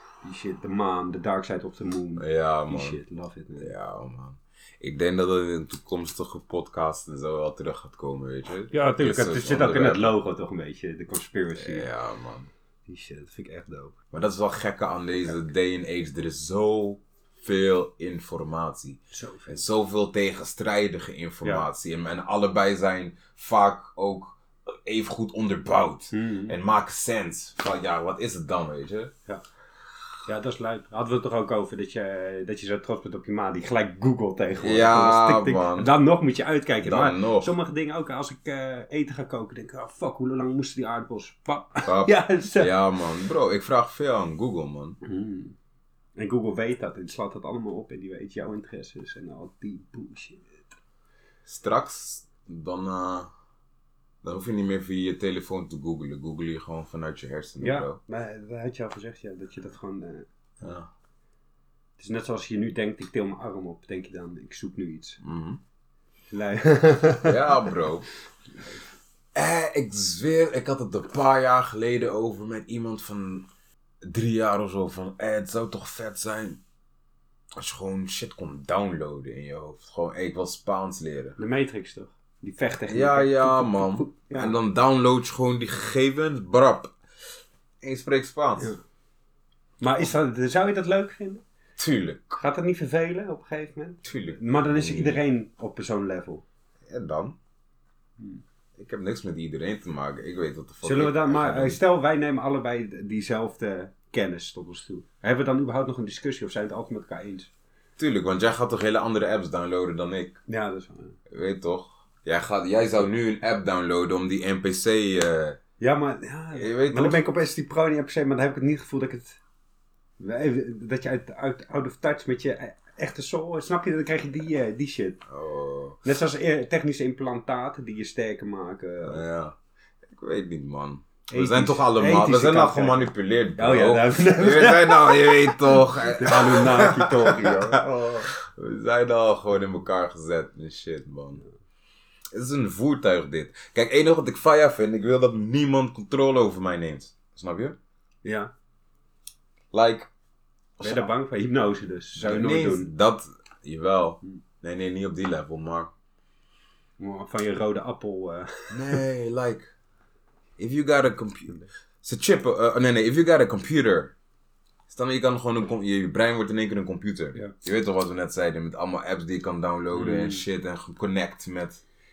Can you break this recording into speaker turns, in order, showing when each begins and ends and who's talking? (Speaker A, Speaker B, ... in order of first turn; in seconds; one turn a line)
Speaker A: 0.2-3.7
Speaker B: 2.2-3.0
Speaker B: 3.6-10.2
Speaker A: 8.7-11.9
Speaker B: 11.6-12.5
Speaker A: 12.9-13.9
Speaker B: 14.1-29.1
Speaker A: 19.1-19.6
Speaker A: 26.1-26.6
Speaker A: 30.2-42.7
Speaker B: 34.6-35.9
Speaker B: 36.8-37.5
Speaker B: 41.9-45.0
Speaker A: 45.0-45.5
Speaker A: 46.1-50.6
Speaker B: 51.5-53.3
Speaker B: 54.2-58.0
Speaker A: 57.6-60.3
Speaker B: 60.6-60.9
Speaker A: 62.0-65.2
Speaker B: 65.2-65.6
Speaker A: 66.3-67.7
Speaker B: 67.2-68.1
Speaker B: 69.3-73.5
Speaker B: 74.0-76.6
Speaker B: 77.5-81.4
Speaker A: 81.4-84.5
Speaker B: 82.9-86.9
Speaker B: 87.8-88.7
Speaker A: 89.8-91.4
Speaker B: 91.8-92.4
Speaker A: 92.4-96.4
Speaker B: 94.0-95.2
Speaker B: 96.8-97.3
Speaker B: 98.8-101.8
Speaker A: 100.8-107.5
Speaker B: 108.0-110.4
Speaker A: 110.5-111.2
Speaker B: 111.3-115.6
Speaker A: 115.8-119.4
Speaker B: 116.5-117.2
Speaker A: 120.2-125.2
Speaker B: 125.3-126.0
Speaker A: 126.0-129.2
Speaker B: 129.1-141.4
Speaker A: 131.3-138.3
Speaker B: 142.3-147.8
Speaker A: 148.2-148.5
Speaker B: 149.7-150.1
Speaker B: 150.8-151.1
Speaker A: 150.8-152.9
Speaker B: 152.2-155.9
Speaker A: 157.0-159.0
Speaker B: 158.7-159.7
Speaker B: 160.6-164.1
Speaker B: 164.9-171.8
Speaker A: 169.9-170.4